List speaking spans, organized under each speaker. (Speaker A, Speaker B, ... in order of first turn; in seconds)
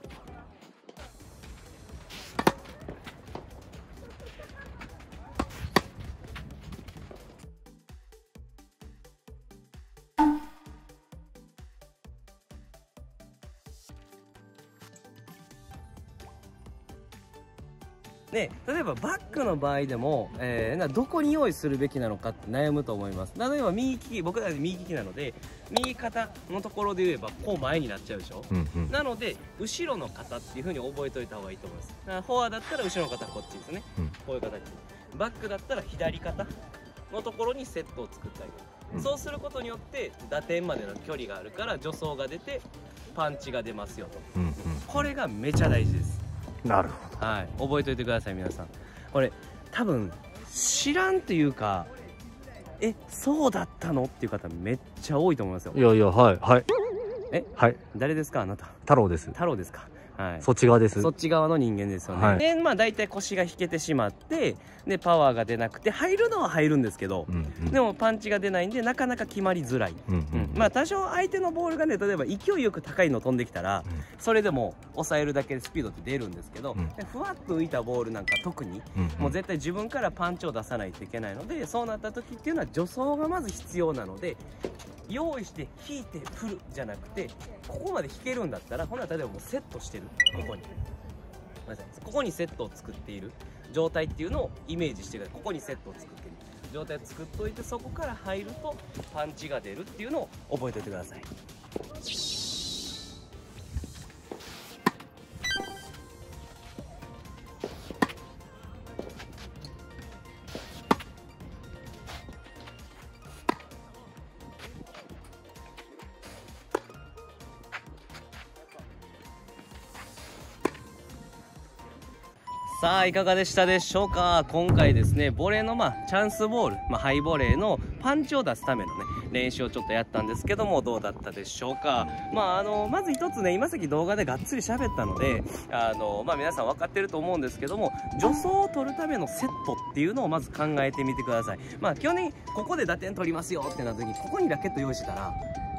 Speaker A: 18.3-36.6, 37.1-46.2, 47.2-51.9, 52.8-55.8, 57.3-58.8, 59.3-84.4, 85.1-90.7, 91.7-101.3, 122.7-145.4
Speaker B: 28.5-28.9, 44.4-45.0, 46.6-47.2, 55.7-56.7, 58.9-59.4, 60.4-61.1, 62.1-62.4, 67.3-67.8, 70.1-70.6, 79.0-79.4